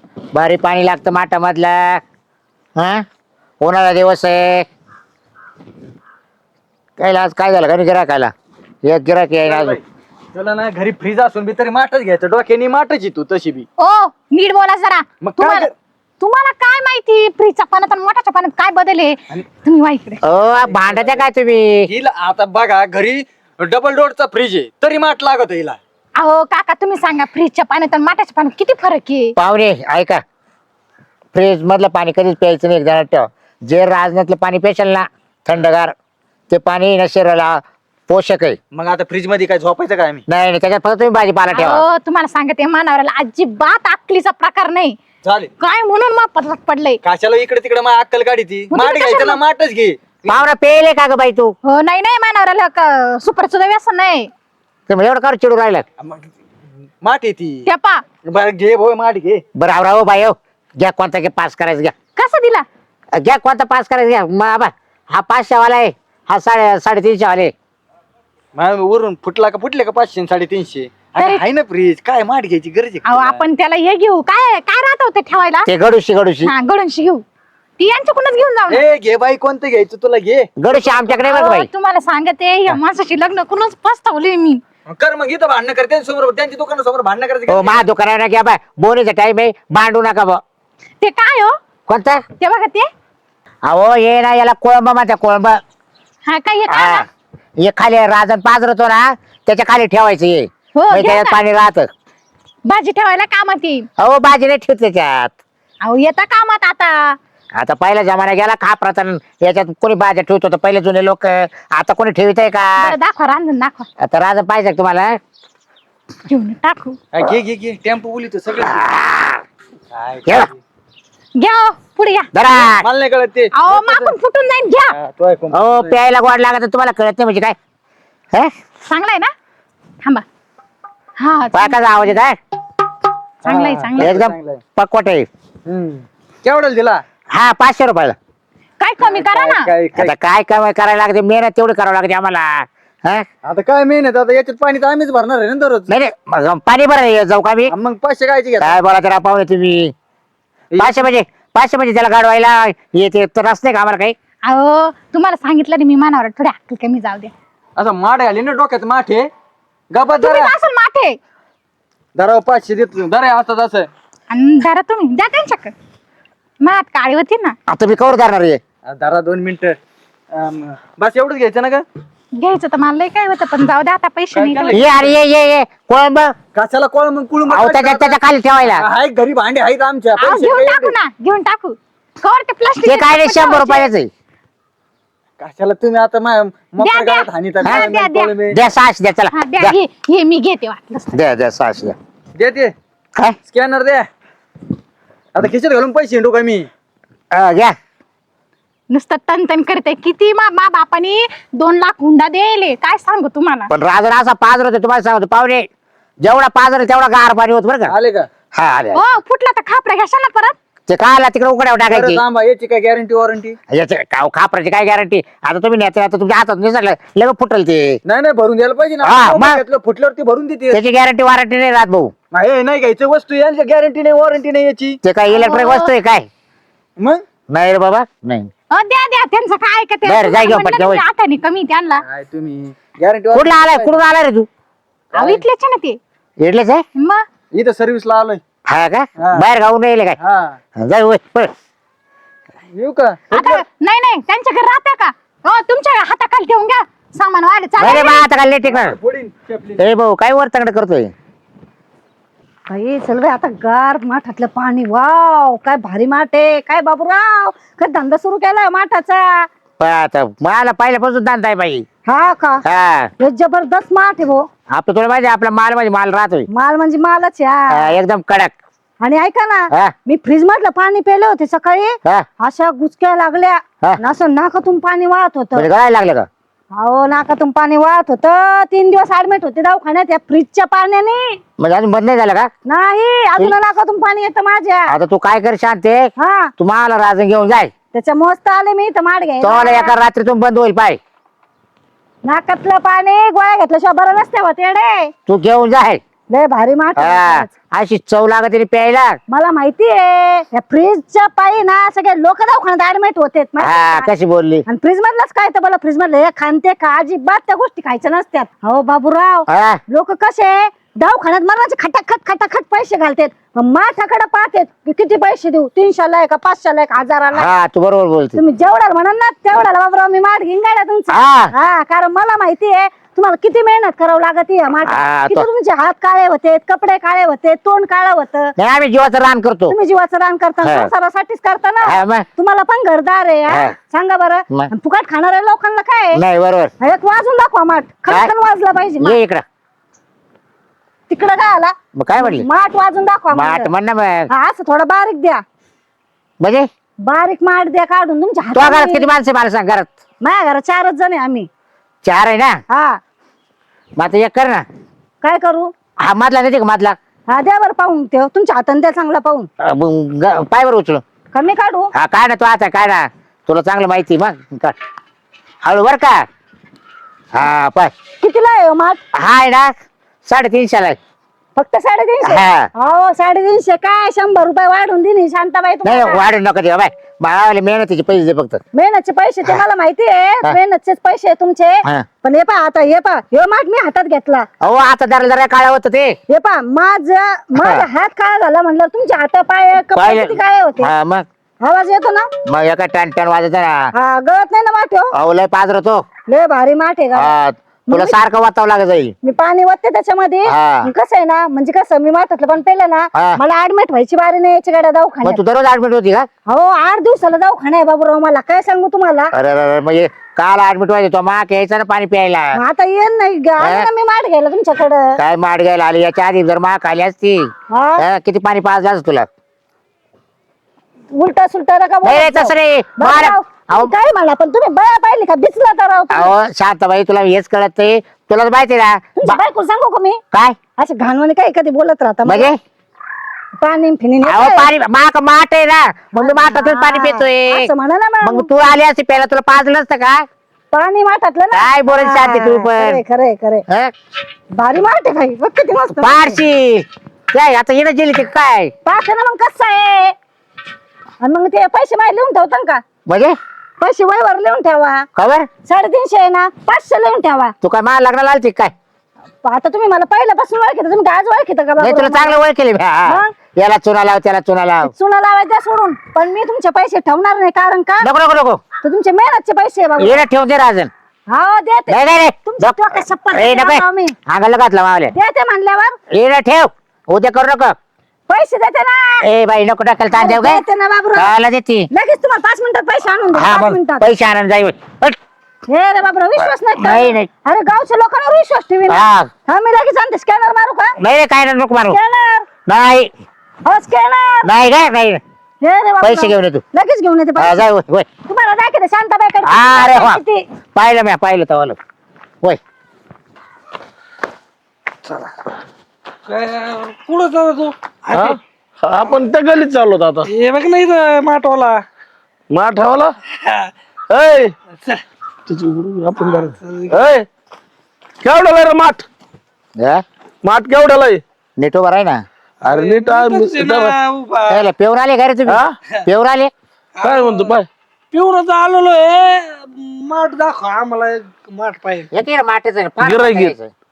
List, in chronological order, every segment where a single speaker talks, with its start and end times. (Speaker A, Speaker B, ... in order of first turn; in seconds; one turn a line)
Speaker A: 0.3-2.0
Speaker A: 2.8-3.0
Speaker A: 3.6-4.7
Speaker A: 7.0-8.3
Speaker A: 8.8-9.8
Speaker B: 9.4-9.8
Speaker B: 10.3-13.7
Speaker C: 13.8-15.7
Speaker B: 15.2-15.7
Speaker C: 16.2-20.2
Speaker A: 20.2-21.9
Speaker B: 20.6-21.2
Speaker B: 21.9-25.8
Speaker C: 26.2-29.3
Speaker A: 29.4-30.2
Speaker A: 31.3-36.0
Speaker A: 36.5-38.6
Speaker B: 38.7-40.2
Speaker A: 40.3-41.8
Speaker C: 41.5-45.0
Speaker B: 45.2-45.5
Speaker C: 45.6-47.0
Speaker B: 47.0-50.4
Speaker C: 48.7-49.4
Speaker A: 50.3-51.5
Speaker C: 51.7-54.3
Speaker A: 54.9-55.9
Speaker B: 56.0-56.3
Speaker B: 57.0-57.7
Speaker C: 57.7-58.0
Speaker B: 58.2-59.4
Speaker A: 59.6-61.9
Speaker C: 62.2-62.6
Speaker A: 63.2-67.5
Speaker B: 68.5-73.4
Speaker C: 71.2-71.4
Speaker C: 73.0-75.7
Speaker A: 75.7-76.5
Speaker C: 76.5-77.2
Speaker C: 77.8-78.8
Speaker B: 78.7-81.0
Speaker A: 80.6-81.7
Speaker C: 81.2-84.6
Speaker B: 84.9-87.8
Speaker A: 87.5-90.4
Speaker C: 91.0-91.5
Speaker A: 91.9-92.2
Speaker C: 92.4-92.9
Speaker A: 93.7-95.6
Speaker C: 96.3-97.1
Speaker A: 96.7-97.1
Speaker A: 97.6-101.9
Speaker C: 100.8-101.4
Speaker C: 102.7-103.9
Speaker A: 104.0-105.3
Speaker C: 105.8-107.2
Speaker A: 107.6-113.0
Speaker C: 112.8-113.9
Speaker A: 114.0-115.2
Speaker C: 116.3-117.0
Speaker B: 117.1-118.9
Speaker A: 118.6-119.4
Speaker B: 119.9-120.5
Speaker A: 120.2-120.5
Speaker C: 121.4-122.3
Speaker A: 122.3-122.9
Speaker B: 122.6-124.2
Speaker C: 123.5-124.9
Speaker B: 124.9-126.0
Speaker A: 125.5-127.6
Speaker C: 128.9-129.3
Speaker C: 131.2-132.2
Speaker A: 131.5-132.4
Speaker C: 133.4-134.2
Speaker B: 133.4-134.6
Speaker A: 134.0-135.3
Speaker B: 135.7-137.0
Speaker A: 137.3-138.2
Speaker C: 138.8-139.7
Speaker B: 139.0-140.1
Speaker A: 139.9-143.2
Speaker B: 143.4-145.9
Speaker A: 145.9-147.7
Speaker B: 147.7-148.8
Speaker A: 148.6-149.9
Speaker B: 150.7-151.1
Speaker A: 150.8-154.2
Speaker C: 154.5-157.3
Speaker B: 157.8-159.3
Speaker B: 159.9-160.5
Speaker C: 160.1-161.2
Speaker B: 162.2-163.9
Speaker C: 164.3-165.7
Speaker C: 166.6-167.6
Speaker A: 167.7-168.6
Speaker B: 168.9-169.8
Speaker B: 170.3-171.8
Speaker C: 172.4-174.9
Speaker B: 174.3-175.1
Speaker A: 174.7-176.3
Speaker B: 176.6-180.9
Speaker A: 177.5-178.9
Speaker C: 180.2-183.9
Speaker A: 182.8-184.1
Speaker B: 185.4-188.6
Speaker C: 186.8-188.3
Speaker A: 187.6-187.9
Speaker A: 188.5-189.8
Speaker C: 189.3-191.2
Speaker A: 191.1-192.0
Speaker B: 192.4-192.7
Speaker B: 193.5-194.1
Speaker B: 195.3-196.7
Speaker A: 197.3-197.8
Speaker C: 198.9-203.7
Speaker A: 203.7-205.7
Speaker A: 206.2-207.9
Speaker B: 207.9-208.3
Speaker A: 208.5-209.0
Speaker C: 208.9-210.6
Speaker A: 210.9-212.2
Speaker B: 211.9-213.6
Speaker A: 213.7-218.0
Speaker B: 218.1-220.8
Speaker A: 219.0-219.6
Speaker A: 220.7-222.1
Speaker B: 222.3-225.0
Speaker A: 225.0-226.3
Speaker C: 225.3-225.9
Speaker A: 227.5-228.5
Speaker C: 228.7-232.0
Speaker A: 230.1-231.0
Speaker B: 232.0-234.0
Speaker A: 233.3-234.5
Speaker B: 235.1-235.4
Speaker C: 235.1-236.0
Speaker A: 236.4-236.8
Speaker C: 237.0-237.2
Speaker B: 237.5-238.4
Speaker A: 238.7-240.2
Speaker B: 239.2-239.5
Speaker B: 240.2-240.6
Speaker A: 240.8-241.5
Speaker B: 242.7-243.6
Speaker C: 243.3-248.3
Speaker A: 247.8-249.0
Speaker B: 248.6-249.8
Speaker A: 249.8-251.1
Speaker D: 252.7-259.5
Speaker A: 259.8-261.9
Speaker D: 262.1-262.6
Speaker A: 262.6-263.1
Speaker D: 263.2-264.5
Speaker A: 264.7-266.5
Speaker D: 266.5-267.9
Speaker A: 267.7-268.5
Speaker D: 269.0-275.7
Speaker A: 275.6-276.3
Speaker D: 276.7-281.4
Speaker A: 281.6-282.5
Speaker D: 282.7-284.9
Speaker A: 284.9-287.7
Speaker D: 286.2-286.5
Speaker D: 287.9-290.0
Speaker A: 289.4-291.0
Speaker D: 292.2-295.1
Speaker A: 295.3-296.0
Speaker D: 296.3-297.5
Speaker A: 297.0-299.2
Speaker D: 299.3-304.1
Speaker A: 303.6-304.6
Speaker D: 304.7-317.5
Speaker A: 309.5-309.8
Speaker A: 317.3-318.4
Speaker D: 318.4-328.5
Speaker A: 321.1-321.5
Speaker A: 324.9-325.5
Speaker A: 328.6-329.8
Speaker D: 329.7-336.2
Speaker A: 330.6-330.9
Speaker A: 331.8-332.3
Speaker A: 333.5-333.8
Speaker A: 336.1-336.7
Speaker D: 336.8-339.2
Speaker A: 339.0-339.4
Speaker D: 341.1-343.7
Speaker A: 341.9-342.5
Speaker A: 343.3-344.3
Speaker D: 344.3-345.4
Speaker A: 346.4-346.7
Speaker D: 347.0-349.1
Speaker A: 348.6-349.9
Speaker D: 350.2-351.5
Speaker A: 352.0-352.6
Speaker D: 352.7-353.0
Speaker A: 354.0-354.6
Speaker D: 355.2-355.7
Speaker A: 356.0-357.0
Speaker D: 357.3-359.5
Speaker A: 359.6-361.0
Speaker D: 361.3-361.9
Speaker A: 361.9-364.8
Speaker A: 365.6-366.3
Speaker A: 367.4-367.9
Speaker D: 368.2-369.0
Speaker A: 369.1-369.7
Speaker A: 370.3-371.0
Speaker D: 371.6-376.2
Speaker A: 372.2-372.7
Speaker A: 375.8-378.6
Speaker D: 378.7-384.5
Speaker A: 384.6-386.2
Speaker D: 386.3-390.9
Speaker A: 387.6-387.9
Speaker A: 389.9-391.3
Speaker D: 391.6-392.3
Speaker A: 392.5-393.9
Speaker D: 393.9-395.1
Speaker A: 395.1-396.1
Speaker D: 396.3-397.3
Speaker A: 397.1-399.1
Speaker D: 397.9-398.2
Speaker D: 399.2-405.4
Speaker A: 400.5-400.9
Speaker A: 405.2-406.3
Speaker D: 406.5-409.3
Speaker A: 409.3-412.6
Speaker D: 412.6-415.2
Speaker A: 413.6-413.9
Speaker A: 415.2-419.3
Speaker D: 417.7-418.0
Speaker D: 421.1-426.3
Speaker A: 422.0-423.9
Speaker A: 426.1-429.4
Speaker D: 429.2-430.2
Speaker A: 430.3-430.6
Speaker D: 430.8-432.5
Speaker A: 432.2-432.6
Speaker D: 433.6-434.7
Speaker A: 434.2-437.7
Speaker D: 436.2-438.5
Speaker A: 438.2-440.3
Speaker D: 440.7-443.6
Speaker A: 441.5-443.0
Speaker D: 444.6-446.4
Speaker A: 446.0-448.7
Speaker D: 448.9-450.1
Speaker D: 451.2-452.8
Speaker A: 453.1-453.4
Speaker D: 453.8-455.1
Speaker A: 455.1-455.5
Speaker D: 455.7-457.5
Speaker A: 457.6-458.7
Speaker D: 459.4-462.4
Speaker A: 461.8-464.9
Speaker D: 464.9-468.1
Speaker A: 468.0-468.6
Speaker D: 468.8-470.2
Speaker A: 470.0-470.9
Speaker D: 471.3-474.1
Speaker A: 471.9-475.1
Speaker D: 475.1-476.0
Speaker A: 476.1-477.8
Speaker D: 478.3-479.2
Speaker A: 479.2-480.6
Speaker D: 480.1-481.3
Speaker A: 481.2-481.9
Speaker D: 481.9-484.1
Speaker A: 483.3-485.2
Speaker D: 485.7-490.9
Speaker A: 486.8-487.3
Speaker A: 488.9-489.3
Speaker A: 491.0-492.0
Speaker D: 491.9-492.5
Speaker A: 492.7-493.1
Speaker D: 493.6-494.5
Speaker A: 494.4-495.2
Speaker D: 495.6-497.6
Speaker A: 496.0-496.6
Speaker A: 497.4-498.1
Speaker D: 498.3-500.4
Speaker A: 499.4-500.2
Speaker A: 500.8-501.8
Speaker E: 505.1-505.4
Speaker E: 506.3-508.4
Speaker F: 508.1-510.3
Speaker E: 510.3-511.8
Speaker F: 512.5-513.1
Speaker E: 513.4-513.7
Speaker F: 514.1-514.5
Speaker F: 515.5-517.3
Speaker E: 516.6-517.1
Speaker F: 518.2-519.1
Speaker A: 519.8-520.0
Speaker F: 520.4-521.2
Speaker A: 521.6-522.2
Speaker F: 522.6-524.0
Speaker E: 522.6-524.7
Speaker A: 524.5-526.5
Speaker F: 525.5-525.7
Speaker E: 527.0-527.6
Speaker F: 527.0-527.7
Speaker E: 528.1-532.1
Speaker A: 532.1-533.7
Speaker F: 533.0-533.5